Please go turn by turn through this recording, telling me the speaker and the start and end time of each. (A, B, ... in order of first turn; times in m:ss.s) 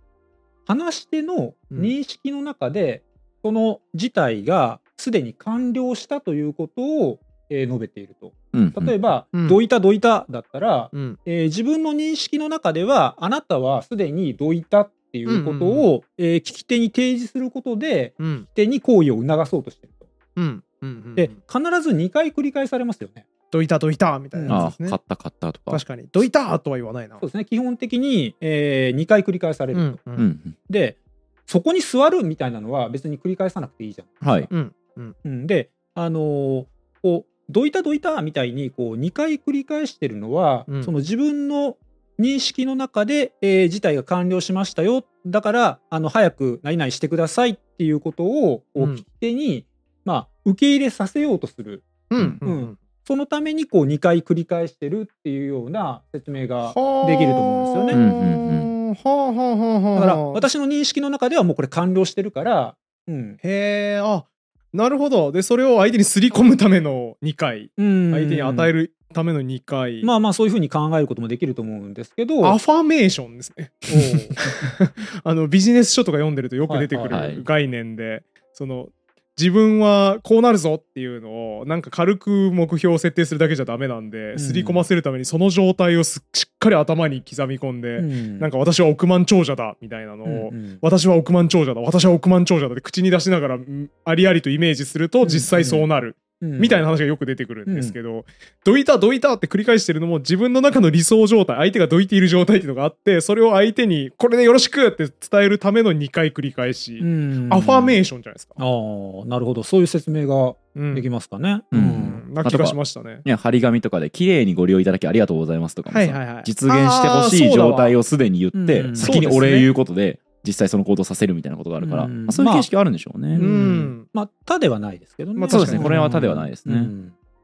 0:00.7-0:20.1 A
0:08.5-0:08.9 B
0:10.9-0:11.2 C
0:15.3-0:15.9 C
0:18.2-0:18.5 C
0:20.4-0:21.4 C
0:21.2-0:23.3 A
0:23.5-0:25.0 C
0:24.3-0:24.7 A
0:24.5-0:25.8 B
0:25.7-0:27.2 C
0:27.2-0:30.0 A
0:29.7-0:30.3 C
0:30.2-0:30.6 B
0:30.7-0:34.5 A
0:34.2-0:34.5 B
0:34.5-0:35.2 C
0:35.2-0:51.9 A
0:48.8-0:49.0 C
0:52.1-0:52.8 C
0:52.4-0:58.0 A
0:56.6-1:00.5 C
0:57.9-0:58.7 B
1:00.0-1:03.4 A
1:03.4-1:10.1 C
1:07.8-1:08.7 A
1:10.0-1:12.6 A
1:12.4-1:48.6 C
1:13.9-1:14.4 A
1:16.7-1:17.3 A
1:17.1-1:17.4 B
1:24.4-1:24.9 A
1:28.0-1:28.5 A
1:30.2-1:30.8 A
1:35.2-1:35.9 A
1:36.4-1:36.8 A
1:37.7-1:38.0 A
1:47.0-1:48.0 A
1:48.6-1:52.2 A
1:50.8-1:51.1 C
1:51.7-2:03.4 B
1:52.1-1:53.2 C
1:55.9-1:58.0 C
1:58.5-1:59.4 A
1:59.0-1:59.7 C
2:01.8-2:02.7 A
2:03.3-2:07.1 A
2:03.4-2:04.1 C
2:05.4-2:05.9 C
2:05.5-2:06.9 B